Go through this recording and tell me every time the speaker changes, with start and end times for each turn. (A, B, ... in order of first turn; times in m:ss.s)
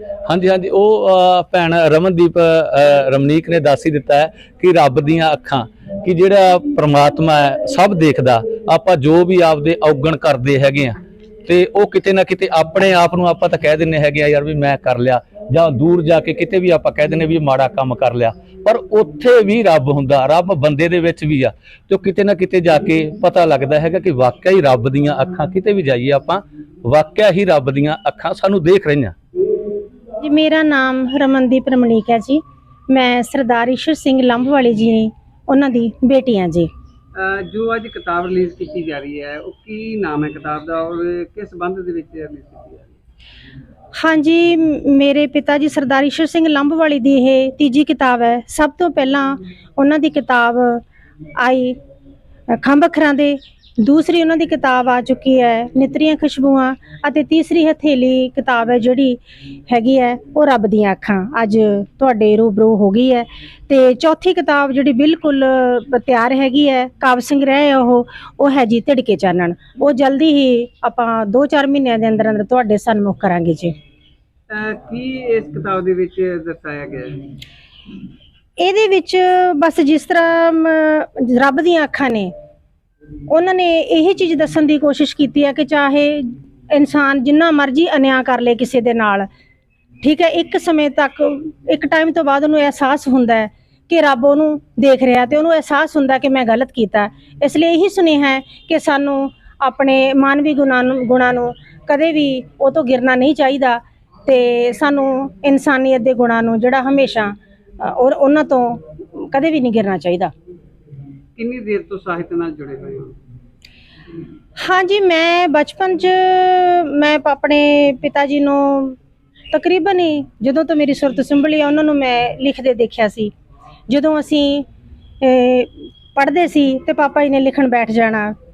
0:00.2-0:29.1 A
0:30.2-0:36.7 B
0:37.1-0:43.0 C
0:44.0-0:50.8 B
0:51.4-0:51.8 B
0:52.5-1:13.7 B
1:14.5-1:17.2 C
1:18.6-1:22.3 B
1:23.3-1:29.3 B
1:30.0-1:50.3 B
1:51.4-1:53.2 C
1:54.6-1:59.0 B
1:59.5-2:03.3 B
2:03.9-2:04.6 B
2:05.2-2:08.3 B